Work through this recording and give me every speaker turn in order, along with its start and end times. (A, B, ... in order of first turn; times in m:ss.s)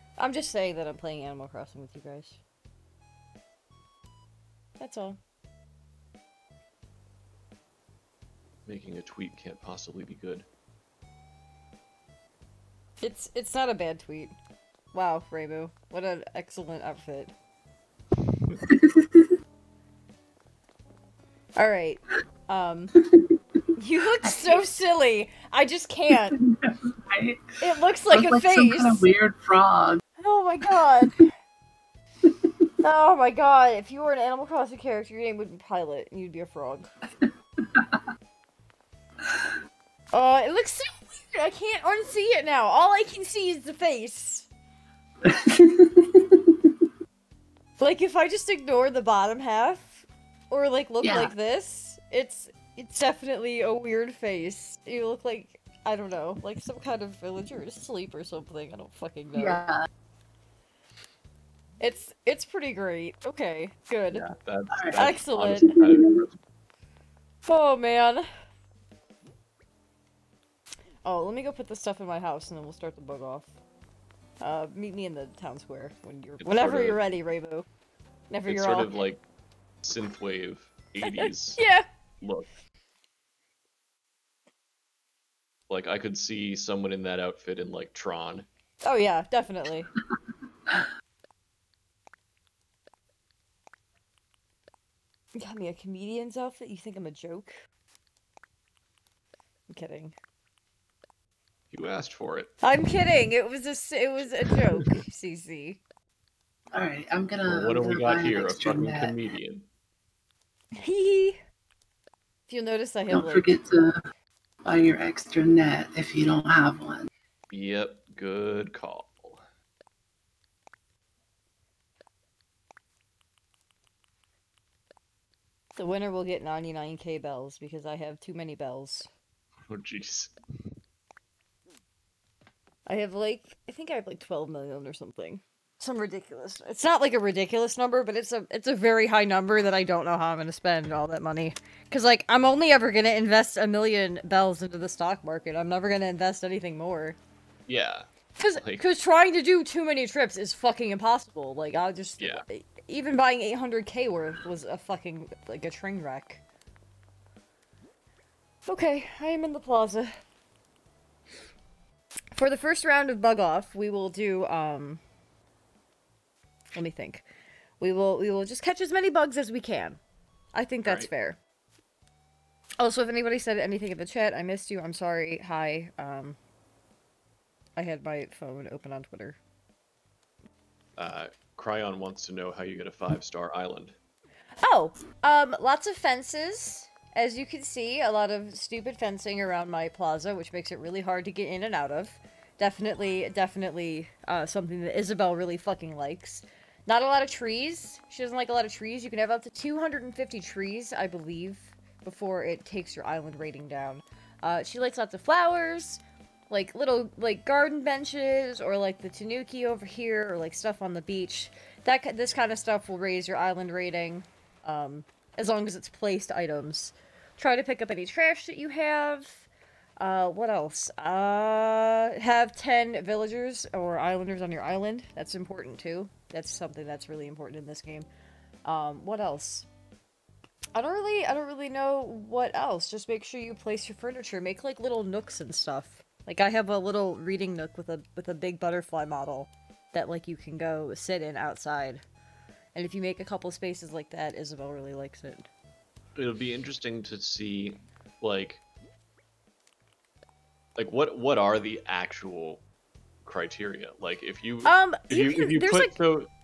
0:00.2-0:02.4 A
0:04.8-0:05.2 A
0:08.7-0:10.5 B
0:13.0-0:14.4 A
0:14.9-0:17.3 A
0:18.3-0:18.6 B
0:18.7-0:19.3 C
0:21.6-0:23.0 A
0:23.0-0:23.3 C
0:23.8-0:26.4 A
0:24.2-0:24.6 C
0:26.3-0:30.0 C
0:27.6-0:29.0 A
0:30.2-0:31.3 A
0:32.8-0:36.9 A
0:37.2-0:38.0 C
0:40.1-0:44.5 A
0:45.2-0:46.6 C
0:47.8-0:59.6 A
0:51.0-0:51.3 C
0:59.4-0:59.8 C
1:01.8-1:04.2 A
1:04.1-1:06.4 B
1:04.8-1:05.1 C
1:05.0-1:05.8 A
1:05.8-1:06.2 C
1:07.5-1:08.3 A
1:11.0-1:13.5 A
1:14.4-1:17.7 A
1:16.4-1:17.0 B
1:18.3-1:19.0 A
1:18.5-1:19.2 B
1:19.8-1:21.6 B
1:21.0-1:21.9 A
1:22.2-1:22.5 B
1:25.7-1:28.5 B
1:28.8-1:29.9 A
1:35.4-1:37.6 A
1:39.7-1:40.2 A
1:41.7-1:42.5 B
1:42.6-1:45.8 A
1:46.7-1:49.2 C
1:47.5-1:49.7 B
1:50.8-1:51.4 A
1:52.5-1:53.5 A
1:53.1-1:54.0 C
1:54.6-1:57.1 C
1:57.5-1:59.5 B
2:05.8-2:09.1 A
2:09.6-2:10.3 B
2:12.9-2:27.2 A
2:27.7-2:28.8 B
2:28.4-2:36.4 A
2:32.2-2:32.4 B
2:38.7-2:40.2 A
2:42.3-2:45.0 A
2:46.8-2:47.3 A
2:47.8-2:50.0 A
2:50.5-2:51.4 A
2:50.8-2:51.1 B
2:52.8-2:56.4 A
2:57.8-2:59.4 A
3:01.0-3:04.0 B
3:04.6-3:39.5 A
3:40.0-3:48.1 A
3:48.6-3:49.7 A
3:50.8-4:02.0 A
4:02.8-4:05.5 A
4:06.2-4:08.6 B
4:10.8-4:12.6 B
4:13.2-4:16.3 B
4:14.6-4:15.9 A